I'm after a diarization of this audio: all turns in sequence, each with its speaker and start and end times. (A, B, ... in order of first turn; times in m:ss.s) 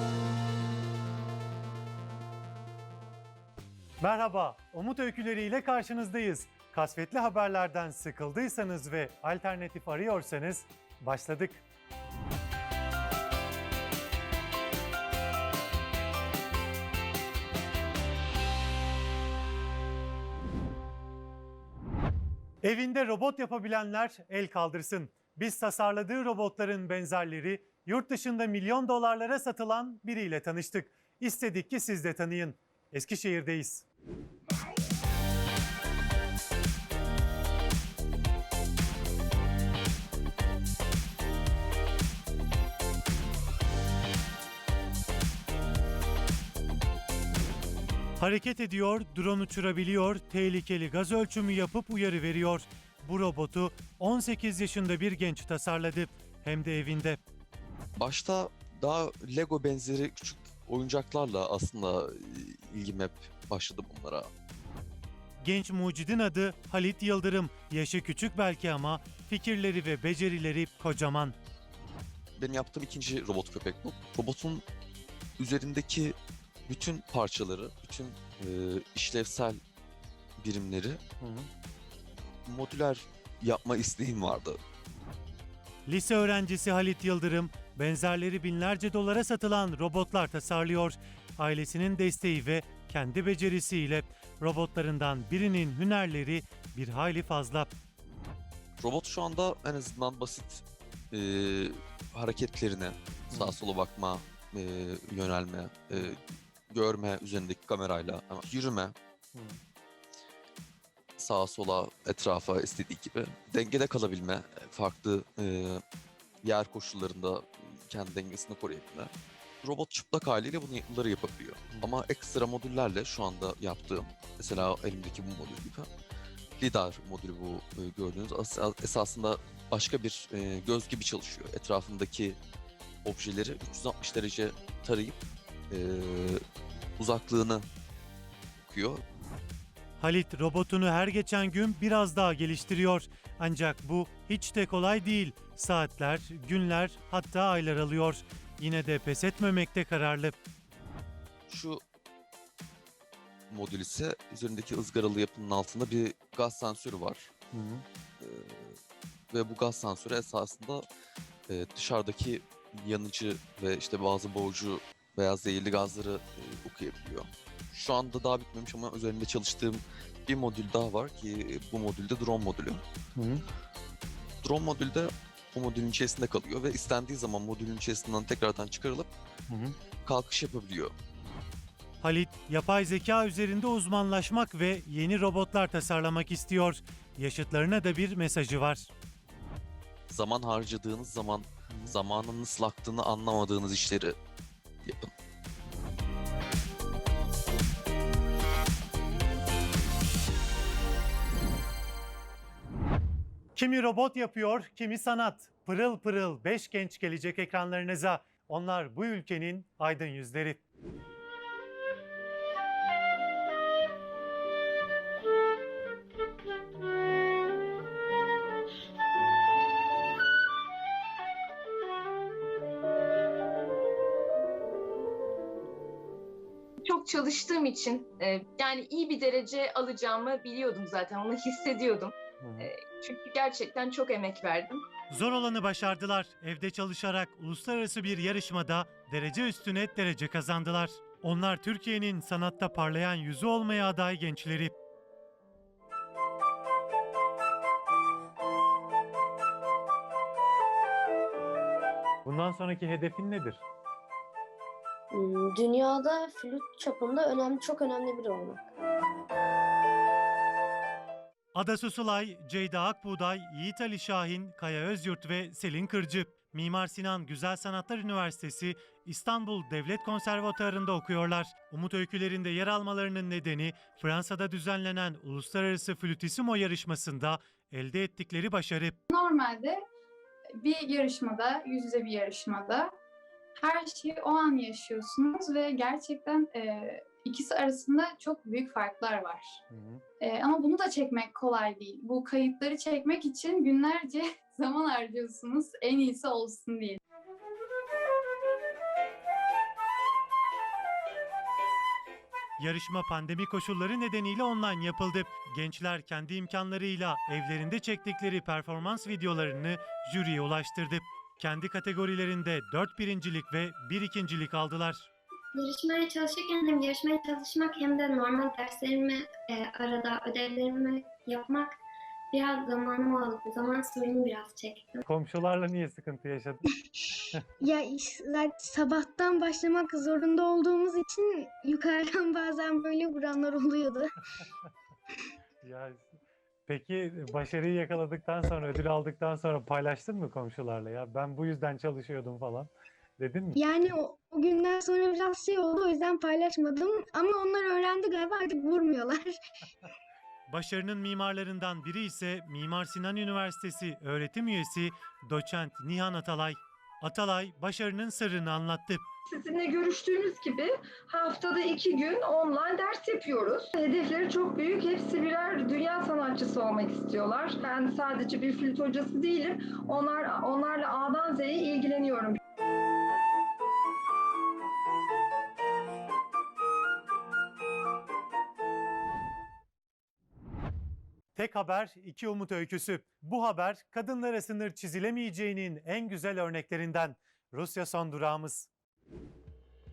0:04.0-0:11.6 A
0:22.6-0:33.8 A
0:48.2-0:57.2 A
0:58.0-1:04.3 B
1:05.4-1:11.4 A
1:12.4-1:14.6 B
1:15.4-1:16.2 B
1:16.7-1:19.6 B
1:20.4-1:21.0 B
1:21.2-1:21.5 A
1:22.4-1:24.6 B
1:25.9-1:37.7 A
1:38.8-1:48.9 B
1:43.3-1:43.6 A
1:51.2-1:55.8 B
1:56.4-2:05.9 B
2:06.6-2:12.4 B
2:13.0-2:15.2 B
2:15.7-2:16.4 B
2:17.0-2:17.6 B
2:18.6-2:19.0 B
2:20.0-2:30.4 A
2:31.5-2:31.8 B
2:33.5-2:37.3 B
2:37.5-2:37.8 A
2:38.2-2:38.7 B
2:39.3-2:40.8 B
2:41.5-2:52.8 B
2:53.2-2:53.4 A
2:54.4-2:59.1 B
3:00.0-3:00.9 B
3:02.0-3:08.9 A
3:10.1-3:14.1 B
3:23.6-3:30.6 A
3:46.8-3:54.8 C
3:55.1-4:04.7 A
4:12.2-4:13.6 A
4:15.1-4:18.7 D
4:21.5-4:39.0 A
4:39.1-4:39.8 E
4:40.6-4:42.9 E
4:43.6-4:49.6 E
4:49.7-4:50.0 A
4:50.3-4:57.0 E
5:02.6-5:15.1 A
5:15.6-5:21.8 F
5:22.3-5:25.0 F
5:25.0-5:26.6 A
5:27.6-5:34.0 G
5:35.6-5:36.1 A
5:36.7-5:43.6 A
5:43.5-5:49.4 G
5:50.5-5:59.0 A
5:59.3-6:12.4 H
6:21.3-6:28.7 A